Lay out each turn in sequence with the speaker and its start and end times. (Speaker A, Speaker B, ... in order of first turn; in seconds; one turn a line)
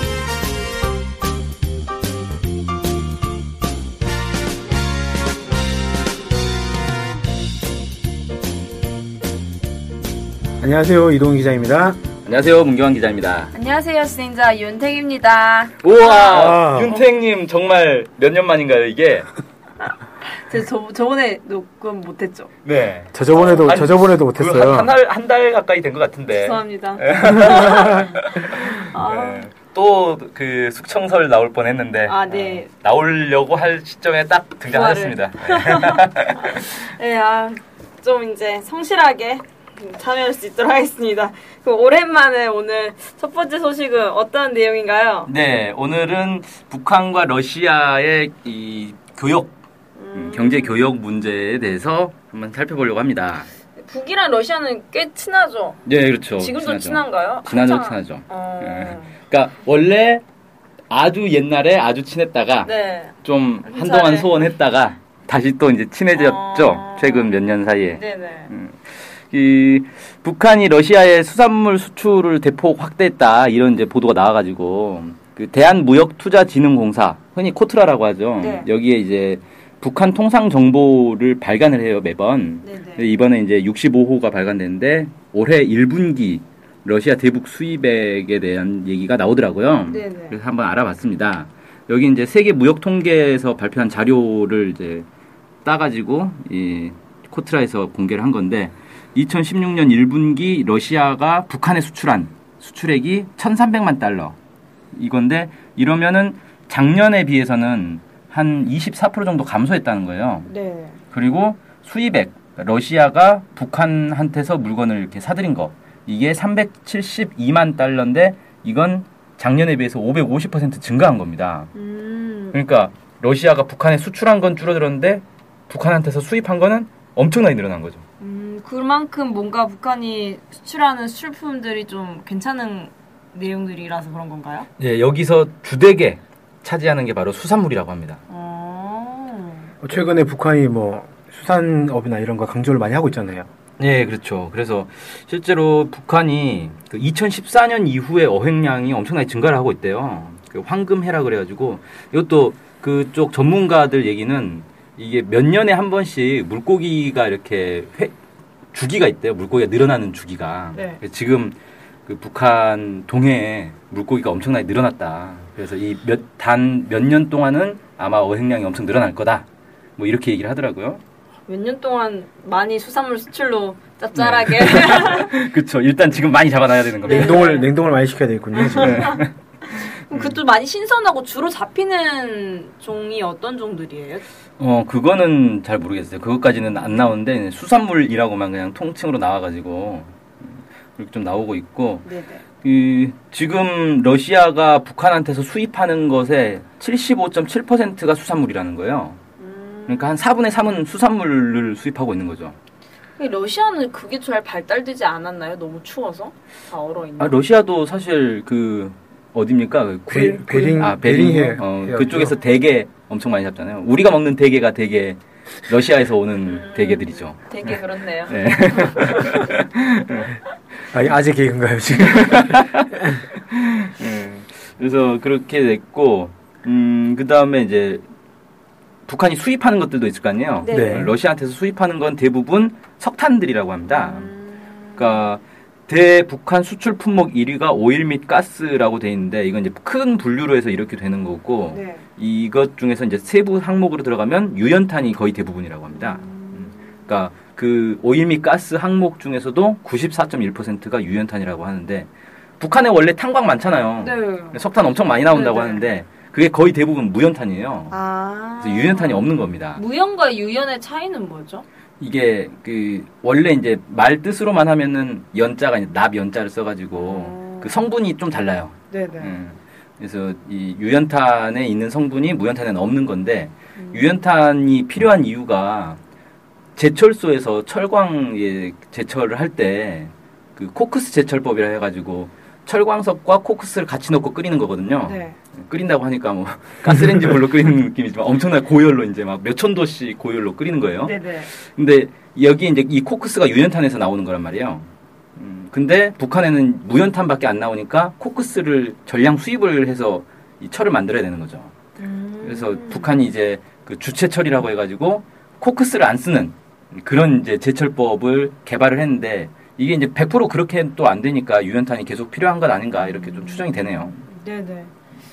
Speaker A: 10.6-12.0
Speaker B: 12.2-13.5
Speaker C: 13.5-16.6
Speaker B: 15.8-19.3
Speaker A: 16.3-17.0
Speaker C: 20.2-22.5
Speaker B: 22.6-36.6
Speaker A: 23.1-24.9
Speaker C: 26.3-29.5
Speaker C: 32.0-32.7
Speaker C: 34.7-45.3
Speaker B: 45.3-49.5
Speaker C: 50.0-50.8
Speaker B: 50.1-53.5
Speaker C: 53.8-55.8
Speaker B: 55.9-60.2
Speaker C: 56.3-59.1
Speaker B: 60.9-62.7
Speaker C: 62.6-64.5
Speaker B: 63.2-95.1
Speaker C: 66.1-68.5
Speaker C: 78.4-78.7
Speaker C: 82.6-83.1
Speaker C: 89.9-90.4
Speaker B: 95.6-104.4
Speaker B: 104.9-110.5
Speaker C: 110.5-111.0
Speaker B: 111.1-121.7
Speaker C: 121.7-122.6
Speaker B: 122.5-128.0
Speaker C: 128.2-134.7
Speaker B: 134.8-138.2
Speaker C: 138.3-139.7
Speaker A: 139.8-143.5
Speaker B: 143.8-158.1
Speaker B: 158.7-169.5
Speaker C: 160.7-161.0
Speaker B: 170.0-171.0
Speaker C: 171.5-175.3
Speaker B: 174.2-177.5
Speaker C: 177.0-177.7
Speaker A: 177.1-179.2
Speaker B: 178.6-179.3
Speaker C: 179.7-184.2
Speaker B: 180.1-180.4
Speaker B: 184.6-192.1
Speaker C: 192.0-192.4
Speaker B: 192.6-199.2
Speaker C: 199.4-200.1
Speaker B: 199.9-202.6
Speaker C: 203.2-207.4
Speaker B: 207.2-220.4
Speaker A: 210.1-212.4
Speaker C: 216.4-219.4
Speaker A: 220.9-223.2
Speaker B: 222.0-222.9
Speaker B: 223.5-228.1
Speaker B: 229.1-234.3
Speaker C: 230.6-231.0
Speaker A: 230.7-231.1
Speaker C: 233.9-235.2
Speaker B: 234.9-257.9
Speaker C: 241.7-242.0
Speaker C: 246.0-246.8
Speaker C: 254.0-254.6
Speaker C: 255.3-255.9
Speaker C: 257.9-261.6
Speaker B: 258.6-259.8
Speaker B: 262.0-276.0
Speaker C: 267.0-267.8
Speaker C: 268.9-269.4
Speaker C: 273.8-274.1
Speaker B: 276.8-301.7
Speaker C: 285.0-285.4
Speaker C: 291.0-291.5
Speaker C: 302.0-303.1
Speaker B: 302.4-314.2
Speaker C: 313.0-314.9